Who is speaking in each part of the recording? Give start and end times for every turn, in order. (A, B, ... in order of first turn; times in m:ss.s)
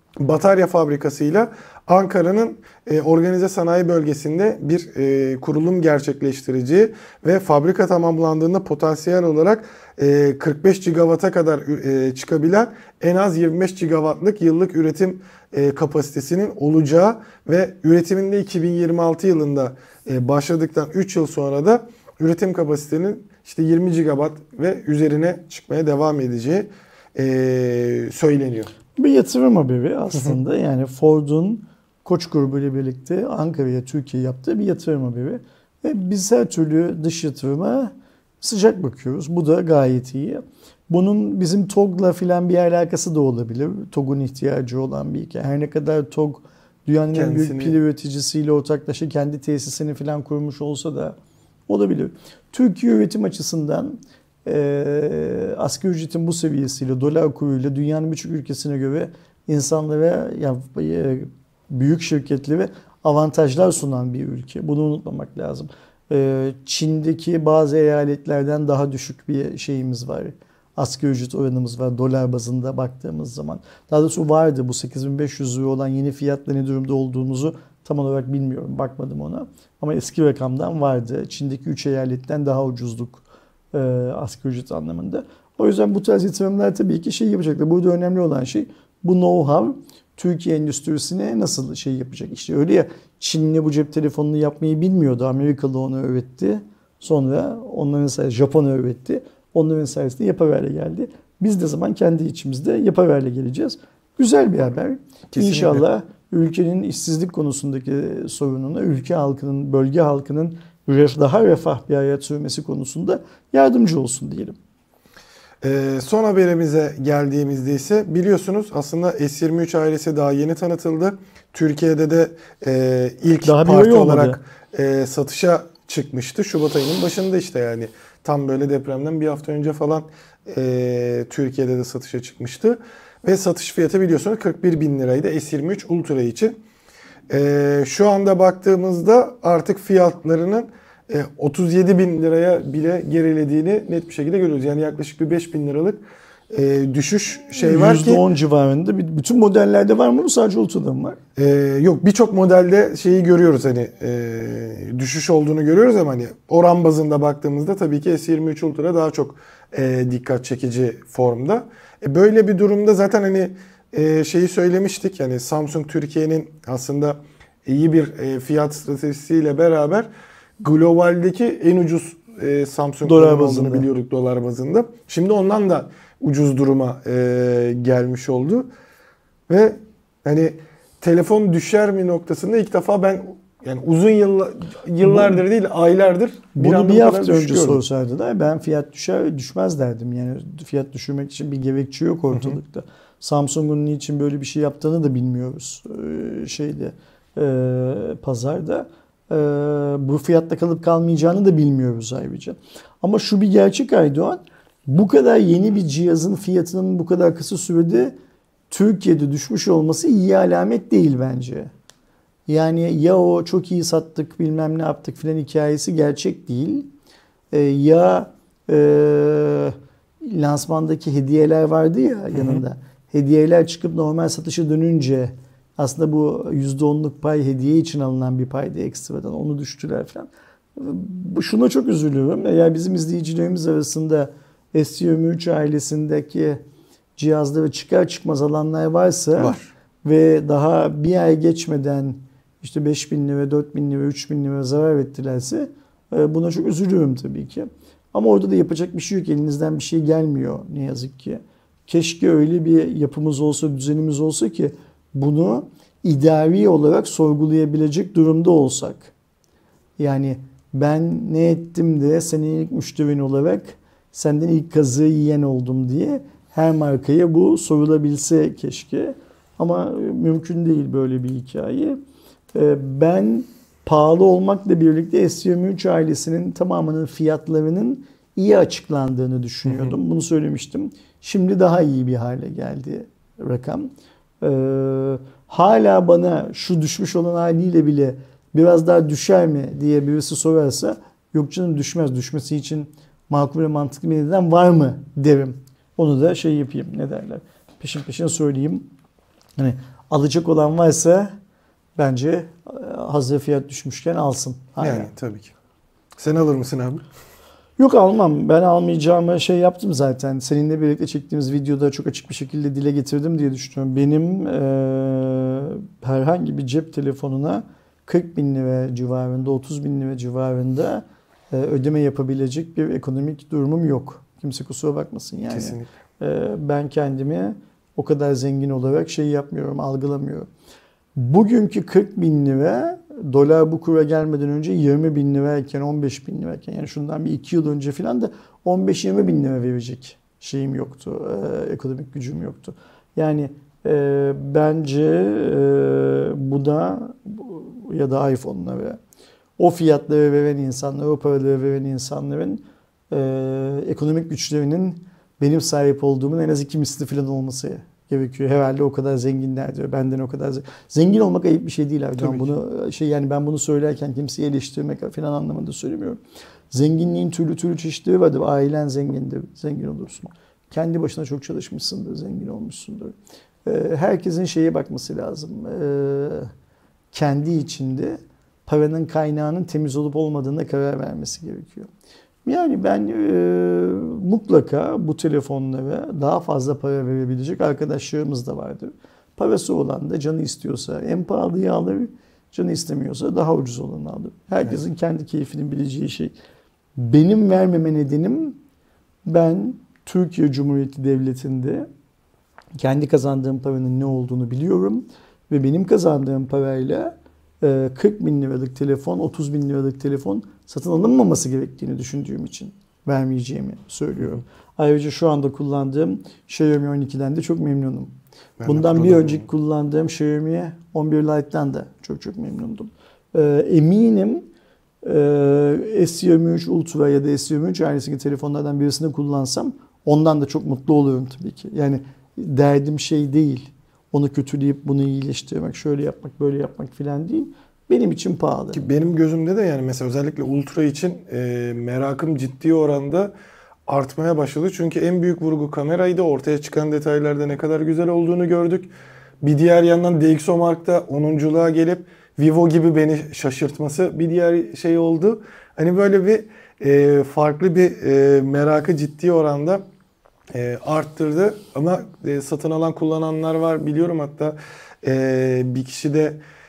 0:00.2-0:28.7 A
0:29.0-0:51.2 B
0:47.1-0:47.8 A
0:51.7-1:54.6 B
1:45.3-1:45.8 A
1:55.6-2:16.6 A
2:03.4-2:04.4 B
2:17.3-2:28.2 A
2:27.5-2:31.2 B
2:31.4-2:50.1 A
2:50.6-2:58.7 A
2:53.0-2:53.9 B
2:59.5-3:07.8 A
3:05.0-3:05.4 B
3:06.6-3:28.2 B
3:12.3-3:12.6 A
3:28.7-3:31.7 B
3:32.5-3:36.9 B
3:37.5-3:56.6 B
3:42.3-3:42.6 A
3:57.2-4:19.1 B
3:59.4-3:59.7 A
4:20.0-4:32.0 B
4:32.5-4:58.9 B
4:39.7-4:39.9 A
4:59.6-5:01.3 B
5:02.0-5:05.1 B
5:04.8-5:05.5 A
5:06.2-5:07.0 A
5:07.8-5:30.5 B
5:25.5-5:25.9 A
5:31.2-5:49.0 B
5:49.6-6:06.2 B
6:02.2-6:02.5 A
6:06.7-6:16.5 B
6:17.1-6:21.9 B
6:22.5-6:36.3 B
6:37.0-6:38.6 B
6:39.3-6:41.9 B
6:42.8-7:04.5 B
6:58.6-6:59.5 A
7:05.0-7:18.8 B
7:18.7-7:23.3 A
7:23.9-7:28.9 A
7:29.4-7:39.8 A
7:40.5-7:46.4 A